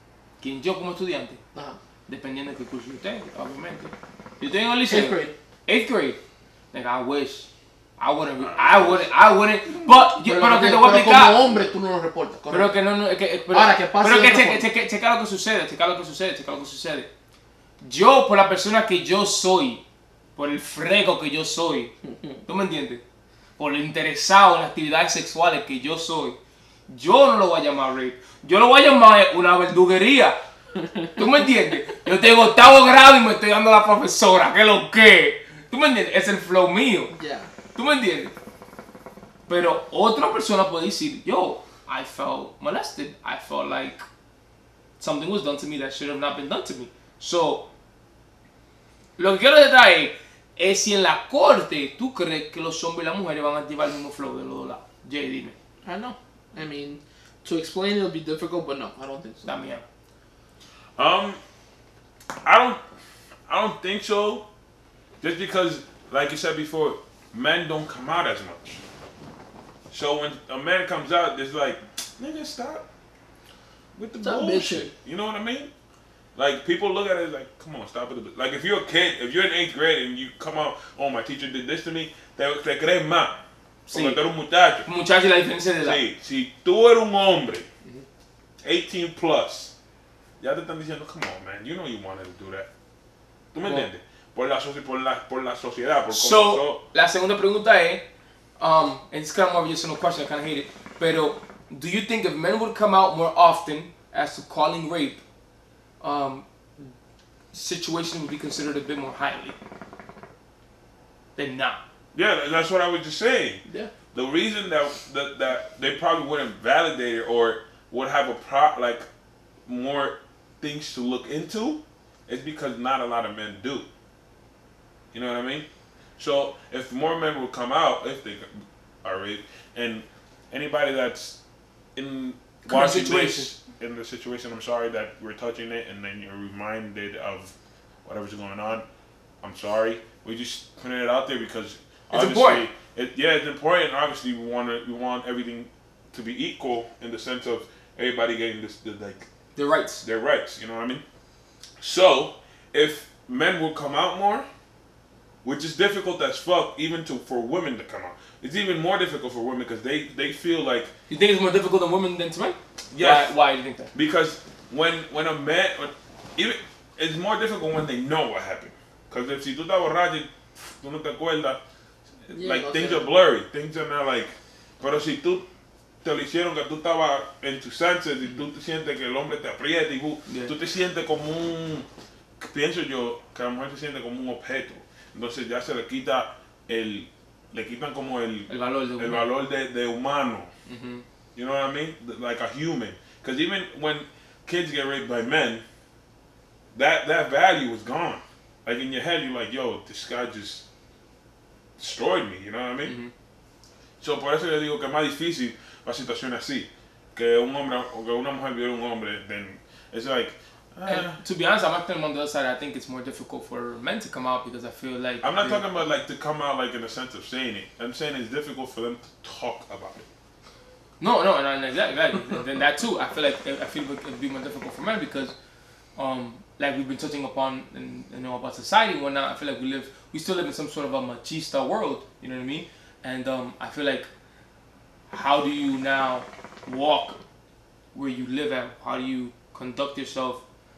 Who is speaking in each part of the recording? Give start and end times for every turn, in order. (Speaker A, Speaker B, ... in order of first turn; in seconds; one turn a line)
Speaker A: 0.4-1.4
Speaker A: 2.1-6.2
Speaker B: 4.9-5.3
Speaker A: 6.7-11.6
Speaker C: 8.4-9.1
Speaker B: 10.1-12.8
Speaker A: 12.5-17.1
Speaker B: 13.5-14.7
Speaker A: 17.8-19.8
Speaker A: 20.4-21.9
Speaker B: 22.0-22.4
Speaker A: 22.4-23.0
Speaker A: 23.6-30.4
Speaker B: 30.8-31.1
Speaker A: 31.1-37.1
Speaker B: 37.1-37.5
Speaker A: 37.7-38.3
Speaker A: 39.5-44.0
Speaker A: 45.0-47.7
Speaker A: 49.2-55.5
Speaker B: 55.8-59.7
Speaker A: 59.4-59.8
Speaker C: 61.0-61.4
Speaker C: 62.4-62.8
Speaker C: 63.5-64.4
Speaker C: 65.2-68.8
Speaker C: 69.9-72.8
Speaker C: 74.0-75.7
Speaker B: 74.2-74.9
Speaker C: 76.3-83.4
Speaker A: 83.9-84.2
Speaker C: 83.9-84.9
Speaker A: 84.8-86.0
Speaker C: 85.8-87.7
Speaker C: 88.6-89.7
Speaker C: 90.4-92.7
Speaker C: 93.5-96.8
Speaker A: 93.6-93.9
Speaker A: 96.1-98.0
Speaker A: 98.6-105.2
Speaker A: 106.0-106.9
Speaker A: 107.5-109.6
Speaker A: 111.3-111.8
Speaker C: 112.1-113.6
Speaker B: 113.7-113.9
Speaker C: 114.1-119.1
Speaker C: 119.7-123.9
Speaker C: 125.1-125.7
Speaker C: 126.2-131.4
Speaker C: 131.9-137.5
Speaker A: 132.7-133.5
Speaker C: 138.0-138.8
Speaker C: 139.4-149.3
Speaker A: 142.1-142.7
Speaker A: 149.5-150.0
Speaker C: 150.0-151.0
Speaker C: 151.8-154.4
Speaker C: 155.4-160.9
Speaker A: 161.1-163.9
Speaker C: 162.9-163.3
Speaker C: 163.9-171.6
Speaker C: 172.2-175.4
Speaker B: 172.3-173.1
Speaker C: 176.0-181.8
Speaker A: 180.3-180.5
Speaker C: 182.4-190.5
Speaker A: 188.5-189.2
Speaker A: 190.7-191.0
Speaker C: 191.3-195.6
Speaker C: 196.7-200.6
Speaker C: 201.8-202.9
Speaker A: 202.8-203.1
Speaker C: 204.0-211.2
Speaker A: 210.8-215.6
Speaker C: 215.2-220.1
Speaker A: 221.0-225.3
Speaker A: 225.9-234.1
Speaker A: 235.1-237.2
Speaker A: 237.9-240.4